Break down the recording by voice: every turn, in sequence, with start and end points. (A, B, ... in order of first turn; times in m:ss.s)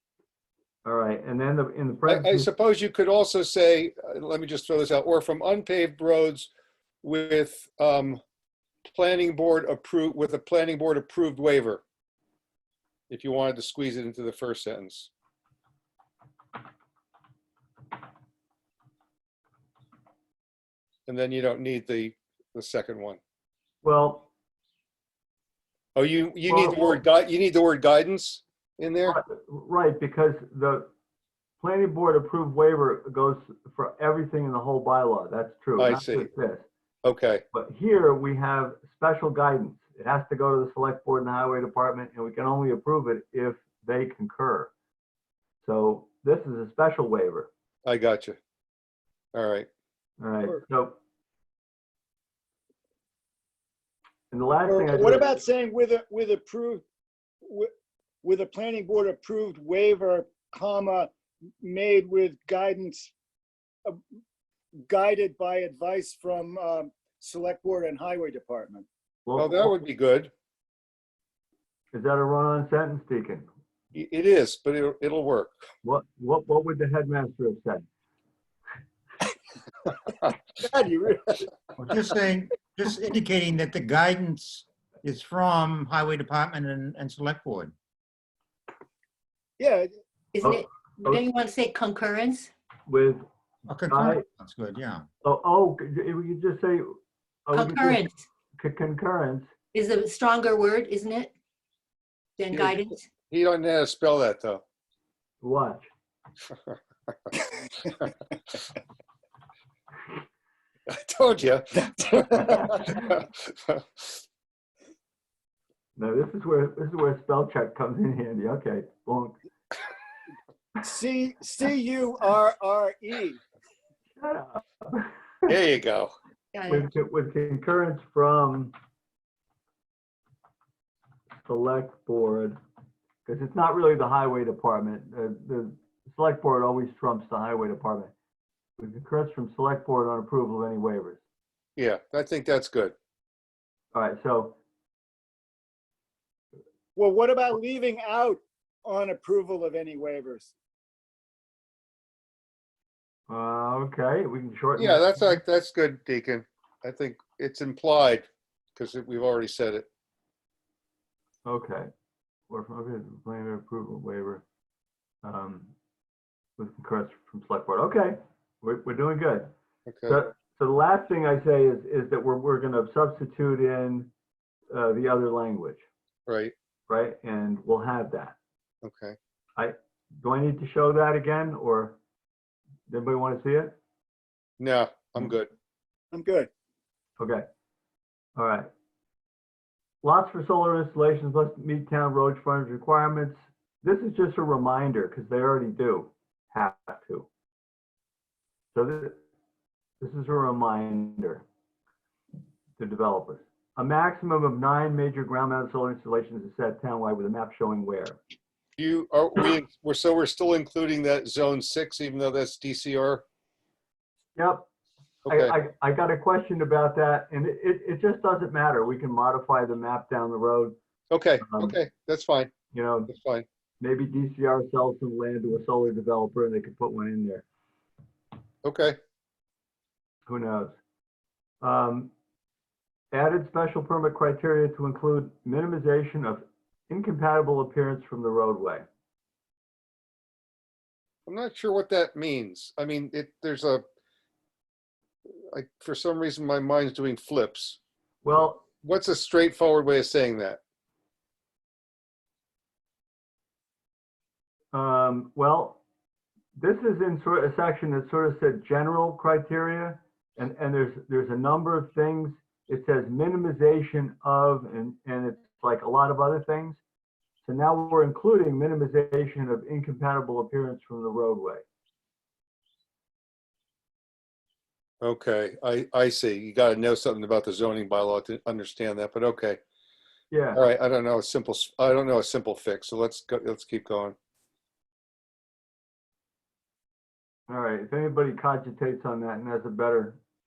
0:00.8-0:02.5 A
0:02.1-0:06.5 B
0:07.0-0:08.2 B
0:08.9-0:11.8 B
0:13.1-0:15.1 B
0:21.1-0:23.2 B
0:23.8-0:24.3 A
0:26.0-0:29.2 B
0:26.5-0:27.0 A
0:29.1-0:30.9 A
0:31.6-0:36.7 A
0:35.8-0:36.3 B
0:37.0-0:37.4 B
0:37.5-0:44.7 A
0:45.6-0:47.5 A
0:47.9-0:48.4 B
0:49.3-0:49.7 B
0:50.2-0:51.0 A
0:54.3-0:55.4 A
0:54.7-0:56.8 C
0:57.4-0:57.7 C
0:58.2-1:01.1 C
1:01.6-1:03.1 C
1:04.8-1:08.9 C
1:09.3-1:09.8 A
1:09.4-1:10.3 B
1:11.9-1:13.5 A
1:14.0-1:15.5 B
1:15.8-1:17.9 A
1:20.6-1:21.5 C
1:21.8-1:27.7 D
1:29.6-1:29.9 C
1:30.3-1:32.5 E
1:30.4-1:31.2 A
1:32.9-1:33.2 A
1:33.7-1:35.1 D
1:33.9-1:34.2 A
1:35.2-1:38.0 A
1:37.5-1:38.2 E
1:38.6-1:39.5 A
1:39.7-1:41.3 E
1:42.4-1:43.1 E
1:42.5-1:42.8 B
1:43.3-1:44.6 B
1:45.4-1:45.9 A
1:50.9-1:54.2 B
1:56.0-1:59.4 A
2:00.8-2:03.4 C
2:04.2-2:05.1 A
2:05.5-2:06.1 B
2:06.5-2:06.9 E
2:06.7-2:08.7 A
2:11.4-2:12.6 A
2:13.3-2:18.1 A
2:18.8-2:21.2 A
2:21.8-2:22.9 B
2:23.9-2:24.6 A
2:27.0-2:30.5 C
2:33.3-2:35.4 A
2:34.8-2:39.9 B
2:41.4-2:41.9 A
2:42.5-2:44.4 A
2:45.2-2:45.7 A
2:46.6-2:49.5 A
2:49.9-2:50.2 B
2:50.1-2:54.1 A
2:54.7-2:55.8 A
2:56.3-2:56.5 B
2:56.9-2:58.4 A
2:58.8-2:59.2 B
2:59.6-3:02.0 A
3:02.9-3:03.8 A
3:04.6-3:05.5 B
3:06.1-3:06.5 C
3:07.2-3:07.4 A
3:08.4-3:08.7 A
3:10.0-3:17.3 A
3:18.7-3:19.2 A
3:20.0-3:21.4 A
3:22.8-3:28.2 A
3:28.8-3:33.2 B
3:34.4-3:34.7 A
3:35.3-3:35.5 B
3:35.3-3:40.8 A
3:41.1-3:42.5 B
3:41.4-3:41.8 A
3:42.7-3:43.1 A
3:43.1-3:43.4 B
3:43.8-3:47.4 A
3:48.6-3:49.0 B
3:50.3-3:50.8 A
3:51.6-3:52.1 A
3:53.1-3:58.8 A
4:01.3-4:03.8 B
4:05.5-4:07.8 B
4:08.2-4:08.6 A
4:08.4-4:10.6 B
4:14.7-4:15.8 A
4:16.6-4:26.8 A
4:27.4-4:31.6 A
4:35.0-4:39.6 B
4:40.3-4:40.6 A
4:40.5-4:44.2 B
4:47.5-4:50.2 A